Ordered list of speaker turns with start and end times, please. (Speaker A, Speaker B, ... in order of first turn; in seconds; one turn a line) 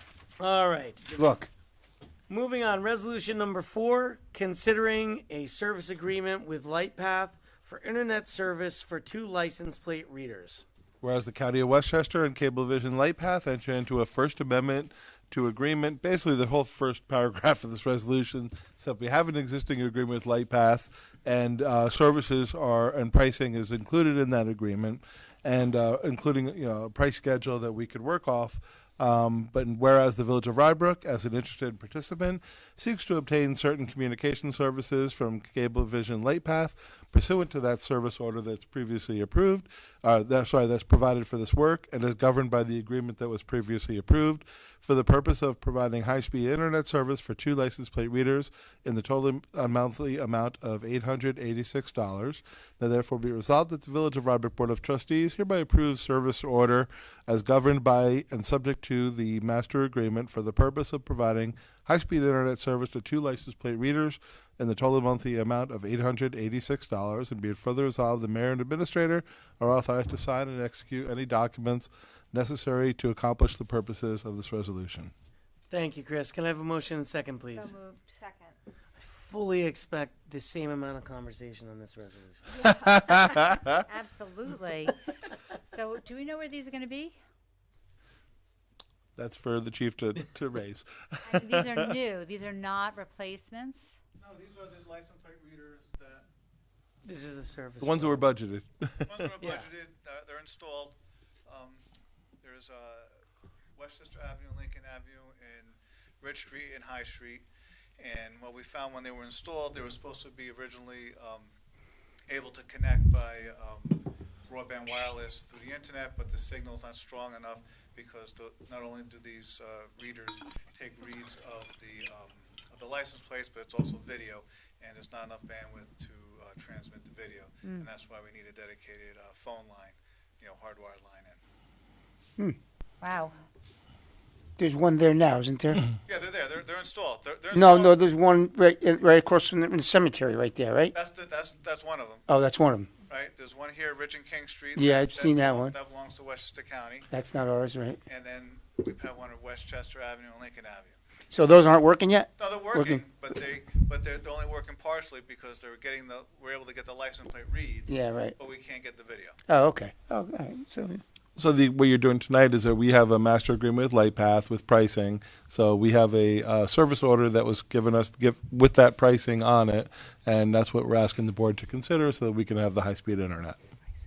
Speaker A: 0.4-1.0
Speaker B: 1.1-1.5
Speaker A: 2.3-10.6
Speaker C: 11.0-75.1
Speaker A: 75.7-77.7
Speaker D: 77.5-78.1
Speaker A: 79.0-82.4
Speaker C: 82.6-83.7
Speaker D: 83.9-84.9
Speaker D: 85.7-87.2
Speaker C: 89.2-91.9
Speaker D: 91.3-93.8
Speaker E: 94.2-96.2
Speaker A: 97.0-98.2
Speaker C: 97.8-99.3
Speaker E: 99.0-101.0
Speaker E: 101.5-101.8
Speaker E: 102.4-103.1
Speaker E: 103.8-107.5
Speaker E: 108.0-111.5
Speaker E: 112.3-131.4
Speaker D: 133.0-133.3
Speaker B: 134.6-135.8
Speaker E: 136.1-137.9
Speaker B: 137.5-140.9
Speaker E: 140.9-142.2
Speaker B: 142.3-142.9
Speaker E: 143.1-147.1
Speaker B: 144.8-145.7
Speaker B: 147.1-148.0
Speaker E: 148.1-151.0
Speaker B: 151.3-153.0
Speaker E: 152.4-159.3
Speaker B: 157.9-158.3
Speaker B: 159.5-161.0
Speaker C: 161.3-173.6